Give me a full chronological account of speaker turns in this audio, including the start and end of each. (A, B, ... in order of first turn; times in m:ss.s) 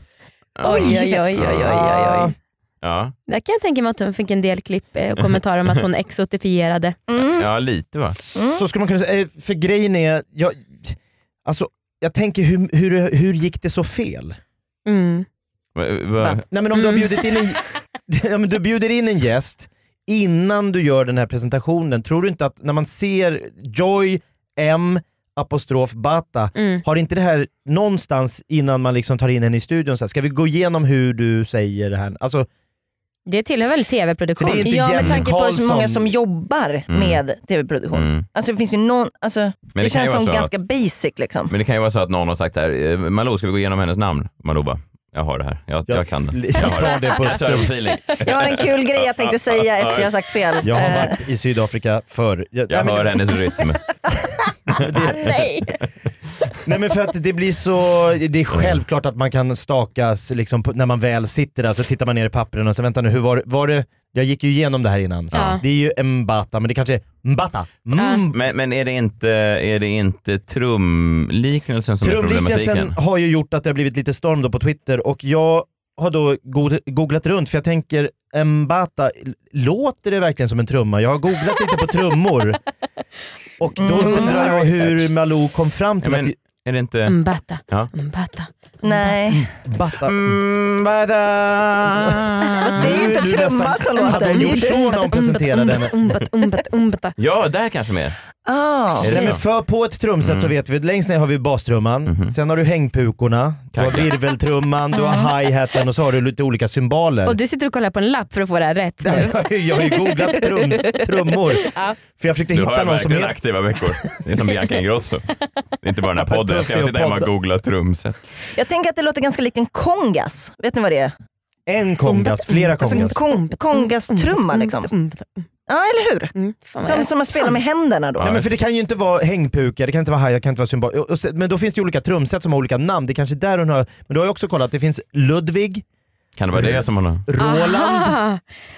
0:00.6-0:01.8 A
0:00.6-0:02.3 B
0:00.7-0:01.3 C
0:01.6-0:02.3 D
0:02.8-0:03.1 A
0:03.3-0:07.0 B
0:07.1-0:07.4 C
0:07.3-0:08.2 A
0:08.3-0:08.6 C
0:08.4-0:14.4 D
0:14.8-0:15.3 B
0:15.8-0:16.4 A
0:16.4-0:32.5 D
0:16.7-0:17.1 B
0:26.6-0:26.8 B
0:33.3-0:34.7 B
0:34.4-0:36.1 D
0:34.4-0:41.5 C
0:35.0-0:35.3 A
0:36.9-0:37.2 A
0:37.9-0:38.2 A
0:39.7-0:40.5 A
0:41.5-0:50.2 A
0:45.9-0:47.8 D
0:48.2-0:51.2 C
0:50.6-0:53.5 D
0:52.7-0:53.8 A
0:54.7-0:55.4 D
0:55.1-0:55.8 B
0:56.6-1:08.4 D
1:05.3-1:05.6 A
1:05.3-1:05.6 B
1:08.0-1:08.2 B
1:08.3-1:12.9 A
1:12.0-1:22.6 D
1:23.6-1:26.3 D
1:23.8-1:24.9 C
1:26.0-1:27.1 A
1:27.1-1:28.5 B
1:28.8-1:29.4 C
1:29.0-1:30.4 D
1:30.0-1:32.4 A
1:32.3-1:32.8 B
1:32.7-1:35.0 C
1:32.7-1:36.0 D
1:34.0-1:37.1 B
1:37.2-1:38.2 A
1:38.4-1:39.4 C
1:39.0-1:39.4 A
1:39.0-1:47.4 D
1:40.2-1:40.5 A
1:42.1-1:42.3 A
1:43.7-1:44.1 A
1:44.9-1:45.3 B
1:47.3-1:52.0 B
1:49.0-1:53.9 D
1:52.5-1:55.2 A
1:55.8-1:58.2 A
1:56.2-1:57.3 D
1:58.5-2:01.1 C
2:01.7-2:03.2 D
2:02.1-2:05.4 B
2:02.7-2:04.9 C
2:05.7-2:08.3 C
2:06.3-2:07.5 B
2:08.2-2:08.5 A
2:08.2-2:15.8 D
2:16.4-2:17.2 A
2:16.5-2:18.2 D
2:17.4-2:18.4 B